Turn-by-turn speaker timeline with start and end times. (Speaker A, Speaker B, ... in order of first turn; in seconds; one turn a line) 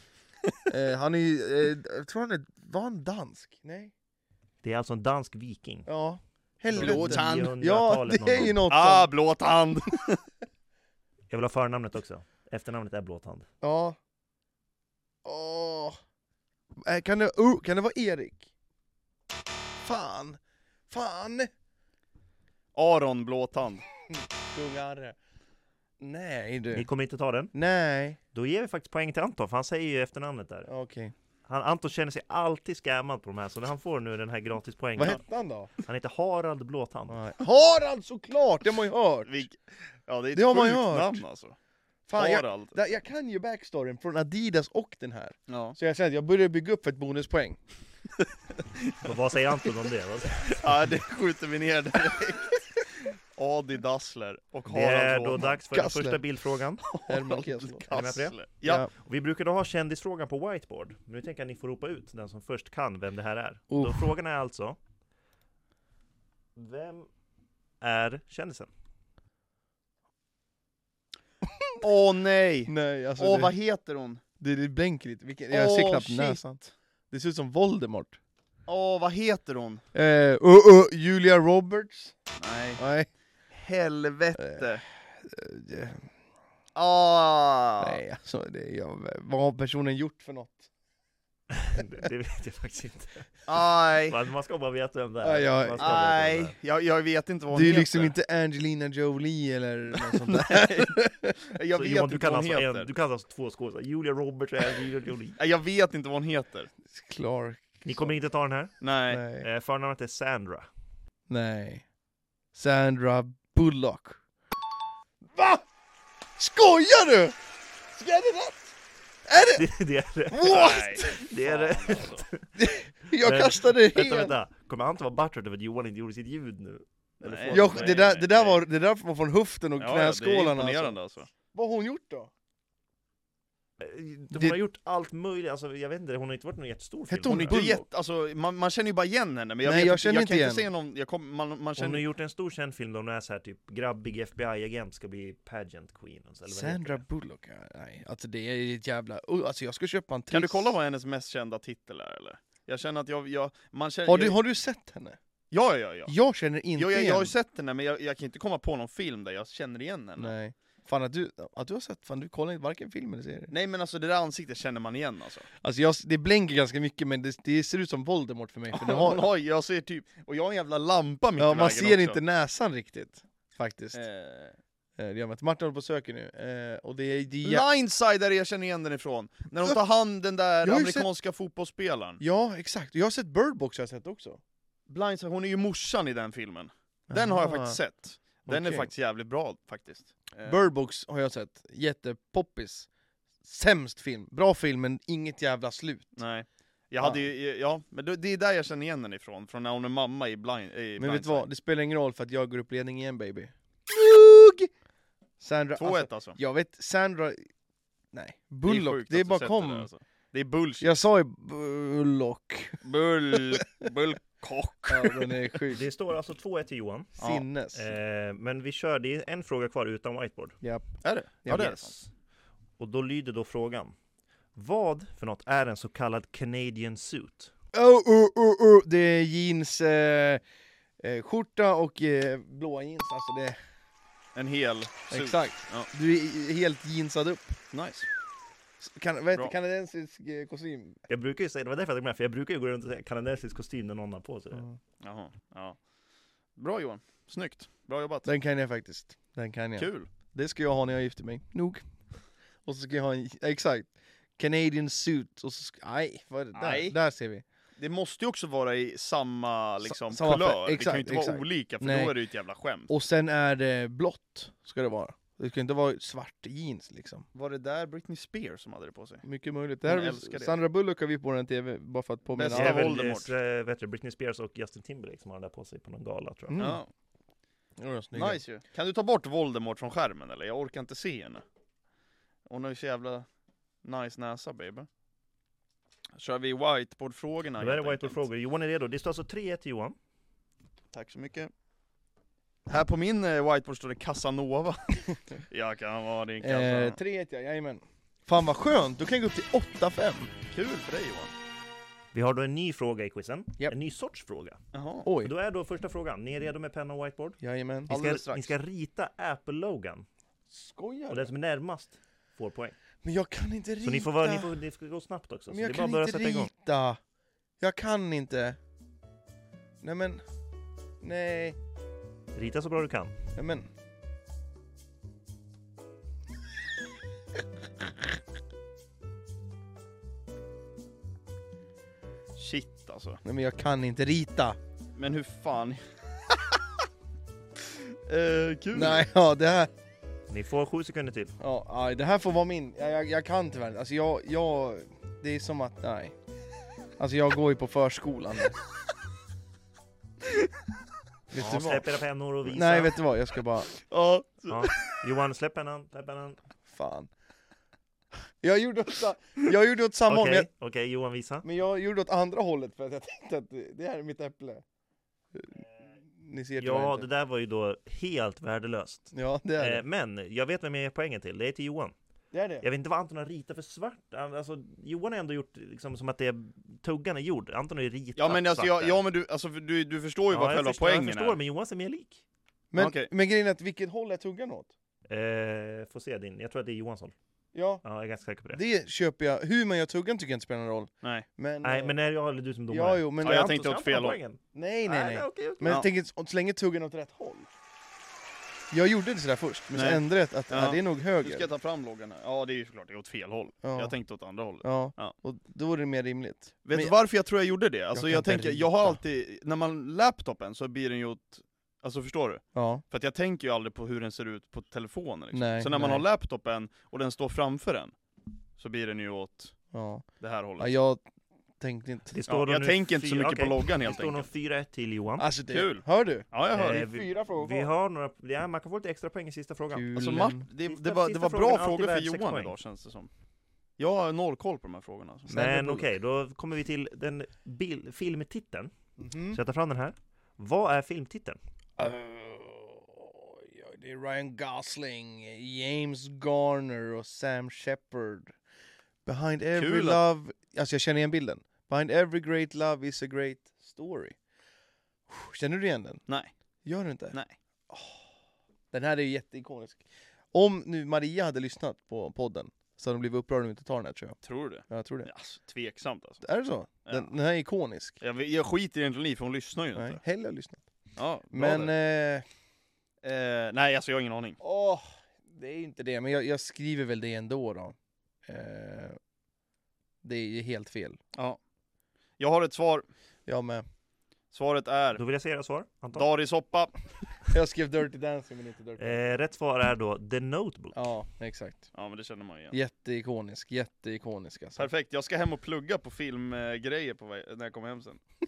Speaker A: 0.7-3.9
Speaker B: 4.6-5.9
Speaker A: 5.8-9.1
Speaker B: 6.7-8.6
Speaker C: 6.7-7.5
Speaker C: 8.7-10.2
Speaker B: 11.3-13.5
Speaker A: 13.6-14.0
Speaker A: 15.2-16.0
Speaker A: 16.8-18.5
Speaker A: 19.8-21.5
Speaker C: 22.7-23.8
Speaker A: 24.1-25.1
Speaker A: 26.0-26.9
Speaker B: 26.7-27.5
Speaker A: 27.5-28.2
Speaker B: 28.3-30.7
Speaker A: 30.7-31.1
Speaker B: 31.5-35.2
Speaker A: 35.0-35.7
Speaker B: 35.9-37.2
Speaker A: 37.1-39.4
Speaker C: 39.2-41.5
Speaker A: 40.3-41.2
Speaker A: 42.1-47.6
Speaker C: 42.1-42.8
Speaker C: 45.5-45.8
Speaker B: 49.0-50.7
Speaker C: 50.5-55.5
Speaker B: 54.7-56.8
Speaker A: 55.4-56.2
Speaker C: 56.8-58.9
Speaker A: 57.0-57.9
Speaker B: 57.9-58.4
Speaker A: 58.6-58.9
Speaker B: 58.9-64.8
Speaker A: 63.7-64.1
Speaker B: 66.5-67.1
Speaker B: 67.8-68.7
Speaker A: 71.4-71.8
Speaker C: 71.8-74.2
Speaker A: 72.7-73.5
Speaker A: 74.4-78.2
Speaker C: 75.5-76.4
Speaker C: 78.7-79.8
Speaker A: 79.9-82.1
Speaker C: 82.4-82.8
Speaker A: 82.8-83.1
Speaker C: 83.5-84.8
Speaker A: 84.3-84.7
Speaker A: 85.2-86.1
Speaker C: 86.7-88.0
Speaker A: 87.8-90.7
Speaker B: 91.5-96.5
Speaker C: 93.5-94.2
Speaker A: 95.2-96.0
Speaker C: 95.8-98.1
Speaker A: 97.5-101.4
Speaker C: 100.0-102.9
Speaker B: 101.7-105.4
Speaker C: 105.4-106.7
Speaker A: 106.9-108.1
Speaker B: 107.8-108.7
Speaker C: 108.8-109.2
Speaker A: 109.1-109.5
Speaker B: 109.3-110.7
Speaker A: 111.3-111.8
Speaker A: 112.5-114.2
Speaker A: 115.3-115.6
Speaker A: 116.4-117.3
Speaker A: 118.0-118.7
Speaker A: 119.3-119.7
Speaker B: 119.5-122.5
Speaker A: 120.3-121.2
Speaker C: 120.5-122.3
Speaker A: 122.6-124.3
Speaker B: 123.2-128.0
Speaker C: 127.2-128.6
Speaker A: 127.5-130.9
Speaker C: 129.8-131.3
Speaker A: 131.5-132.3
Speaker B: 133.8-137.6
Speaker A: 134.3-134.6
Speaker A: 137.1-137.8
Speaker C: 137.3-142.0
Speaker A: 139.6-140.7
Speaker B: 141.8-147.0
Speaker A: 146.5-150.8
Speaker C: 150.3-154.4
Speaker A: 154.1-155.2
Speaker C: 155.5-156.1
Speaker A: 156.1-157.3
Speaker C: 156.8-160.3
Speaker A: 160.2-163.5
Speaker C: 163.5-165.5
Speaker A: 165.6-169.2
Speaker C: 168.7-172.2
Speaker A: 171.4-174.0
Speaker C: 173.9-174.6
Speaker A: 175.0-177.6
Speaker C: 177.4-182.2
Speaker A: 180.6-181.1
Speaker A: 182.2-184.4
Speaker C: 184.9-190.7
Speaker A: 187.1-187.8
Speaker A: 188.5-188.9
Speaker A: 190.4-192.9
Speaker A: 193.4-196.1
Speaker C: 196.2-201.4
Speaker A: 201.0-204.7
Speaker A: 205.4-207.5
Speaker C: 205.8-206.4
Speaker A: 208.1-209.9
Speaker C: 208.7-210.9
Speaker A: 210.8-213.6
Speaker C: 212.8-215.4
Speaker A: 214.9-215.8
Speaker B: 215.7-217.2
Speaker A: 217.2-217.8
Speaker B: 217.7-220.6
Speaker C: 221.0-221.9
Speaker A: 221.4-221.8
Speaker B: 221.5-222.1
Speaker B: 222.8-223.9
Speaker B: 224.5-227.5
Speaker A: 227.7-230.4
Speaker A: 231.0-233.6
Speaker C: 234.3-235.9
Speaker A: 235.1-237.6
Speaker C: 237.7-238.1
Speaker A: 238.8-241.0
Speaker B: 241.1-244.6
Speaker C: 245.0-245.8
Speaker C: 246.6-248.3
Speaker A: 248.2-251.8
Speaker C: 249.8-250.1
Speaker A: 252.6-257.4
Speaker C: 256.5-257.0
Speaker C: 257.8-262.9
Speaker A: 259.8-262.1
Speaker A: 262.9-267.2
Speaker C: 267.3-269.2
Speaker A: 269.2-272.9
Speaker C: 269.8-270.6
Speaker C: 272.4-273.3
Speaker B: 272.5-276.6
Speaker A: 276.5-276.8
Speaker C: 276.6-276.9
Speaker A: 277.8-278.4
Speaker C: 278.1-281.4
Speaker C: 282.5-283.2
Speaker C: 283.8-284.9
Speaker C: 286.1-288.2
Speaker B: 287.6-289.9
Speaker C: 290.9-291.5
Speaker C: 292.7-297.0
Speaker A: 296.4-300.3
Speaker C: 300.5-301.3
Speaker B: 302.1-304.6
Speaker C: 304.7-305.1
Speaker A: 305.0-305.3
Speaker B: 305.2-307.4
Speaker A: 307.4-307.9
Speaker B: 307.9-310.1
Speaker C: 307.9-308.5
Speaker A: 310.5-311.3
Speaker B: 311.1-312.8
Speaker A: 313.0-314.5
Speaker B: 313.8-316.5
Speaker A: 315.5-317.0
Speaker A: 317.6-318.6
Speaker A: 319.8-320.2
Speaker A: 321.0-321.6
Speaker B: 322.3-323.1
Speaker A: 323.3-323.7
Speaker C: 332.4-333.2
Speaker A: 333.2-334.6
Speaker C: 335.0-336.6
Speaker C: 337.7-339.1
Speaker A: 338.7-339.7
Speaker B: 340.3-341.3
Speaker A: 341.4-346.1
Speaker A: 347.0-348.6
Speaker A: 351.3-351.9
Speaker B: 351.3-353.0
Speaker A: 352.4-353.7
Speaker C: 353.8-355.0
Speaker B: 354.5-356.4
Speaker A: 356.7-357.1
Speaker A: 358.4-360.5
Speaker B: 360.1-361.4
Speaker A: 361.4-364.6
Speaker A: 365.3-367.1
Speaker B: 366.6-371.9
Speaker A: 369.1-369.8
Speaker A: 372.3-372.6
Speaker B: 372.6-379.0
Speaker C: 378.2-381.4
Speaker B: 380.3-382.2
Speaker A: 382.7-384.7
Speaker C: 382.8-383.1
Speaker B: 385.1-387.1
Speaker A: 387.5-387.8
Speaker B: 387.8-388.6
Speaker A: 388.5-392.0
Speaker B: 391.6-395.8
Speaker A: 392.7-393.6
Speaker C: 393.2-394.2
Speaker A: 394.5-397.5
Speaker A: 398.7-401.5
Speaker C: 399.7-405.1
Speaker A: 403.6-403.9
Speaker A: 404.6-406.9
Speaker C: 406.6-417.9
Speaker A: 407.9-409.0
Speaker A: 412.5-412.8
Speaker A: 415.3-416.0
Speaker C: 418.6-419.6
Speaker A: 419.7-420.0
Speaker C: 420.2-420.7
Speaker A: 420.6-421.0
Speaker A: 421.6-422.2
Speaker B: 422.1-425.3
Speaker C: 422.3-424.3
Speaker A: 425.2-427.7
Speaker C: 425.5-426.8
Speaker B: 426.5-429.9
Speaker A: 429.7-430.5
Speaker C: 429.9-433.1
Speaker B: 430.6-432.5
Speaker C: 433.8-435.4
Speaker A: 435.3-435.9
Speaker B: 435.3-438.7
Speaker A: 439.0-439.4
Speaker B: 439.3-441.4
Speaker A: 441.8-448.3
Speaker A: 449.0-454.1
Speaker C: 449.6-450.0
Speaker A: 455.1-456.0
Speaker A: 456.6-457.2
Speaker A: 457.7-458.0
Speaker A: 458.7-459.8
Speaker A: 460.3-464.2
Speaker C: 464.2-466.2
Speaker A: 464.7-465.1
Speaker A: 466.2-468.0
Speaker C: 468.0-470.0
Speaker A: 469.7-470.6
Speaker C: 471.0-471.7
Speaker A: 471.3-472.2
Speaker C: 473.0-474.4
Speaker A: 474.4-477.7
Speaker A: 478.2-479.0
Speaker A: 480.0-481.0
Speaker C: 482.2-482.9
Speaker A: 483.3-483.6
Speaker C: 484.3-485.0
Speaker B: 484.9-486.1
Speaker C: 485.9-486.7
Speaker A: 487.3-489.1
Speaker B: 488.8-490.8
Speaker A: 490.7-491.7
Speaker C: 491.7-492.6
Speaker A: 492.5-494.7
Speaker C: 494.6-498.0